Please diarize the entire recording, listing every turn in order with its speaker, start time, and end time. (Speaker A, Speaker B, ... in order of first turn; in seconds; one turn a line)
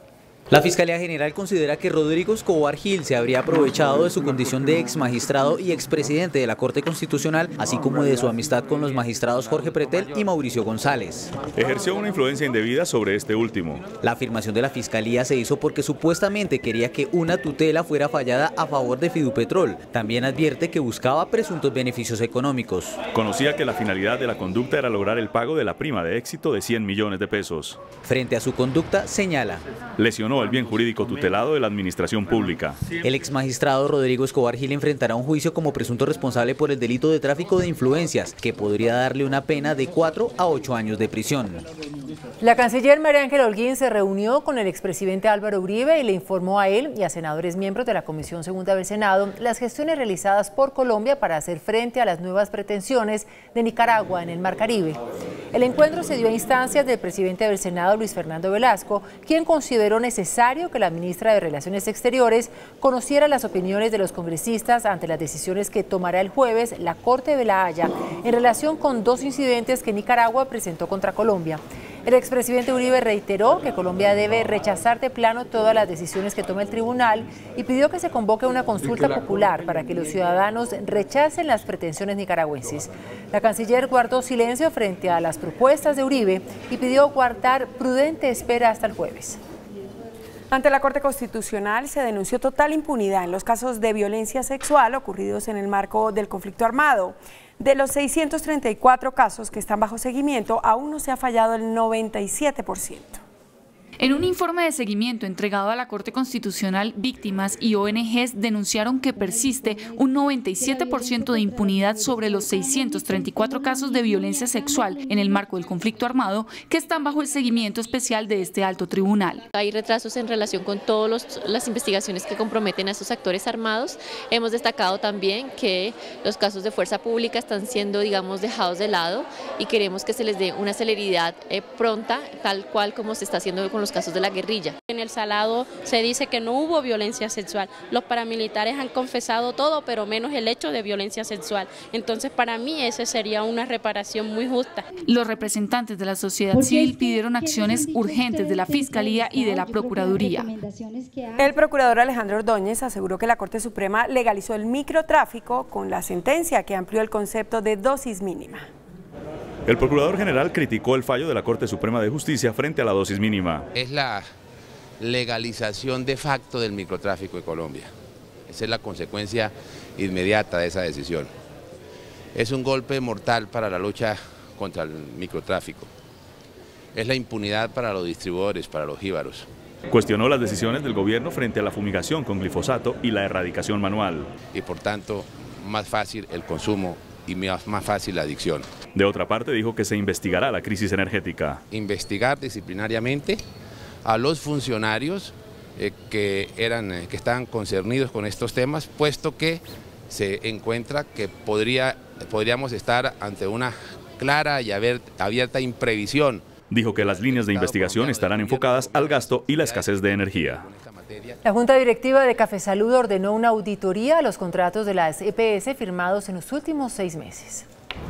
Speaker A: 0.5-11.3
Speaker B: 11.5-13.9
Speaker A: 14.0-23.0
Speaker B: 23.1-27.9
Speaker A: 28.0-29.6
Speaker B: 30.0-32.9
Speaker A: 33.0-41.6
Speaker C: 42.4-89.4
Speaker D: 90.5-103.2
Speaker E: 104.0-119.4
Speaker F: 119.5-134.7
Speaker G: 134.9-144.9
Speaker E: 145.0-150.5
Speaker D: 151.3-158.7
Speaker B: 159.7-163.7
Speaker H: 163.7-164.3
Speaker H: 165.0-167.9
Speaker H: 168.5-171.3
Speaker H: 172.3-175.9
Speaker H: 176.9-179.5
Speaker B: 179.9-184.3
Speaker H: 184.5-188.7
Speaker B: 188.9-191.6
Speaker H: 191.7-193.4
Speaker H: 194.0-206.5
Speaker B: 206.7-210.6
Speaker H: 207.0-211.4
Speaker C: 211.4-217.7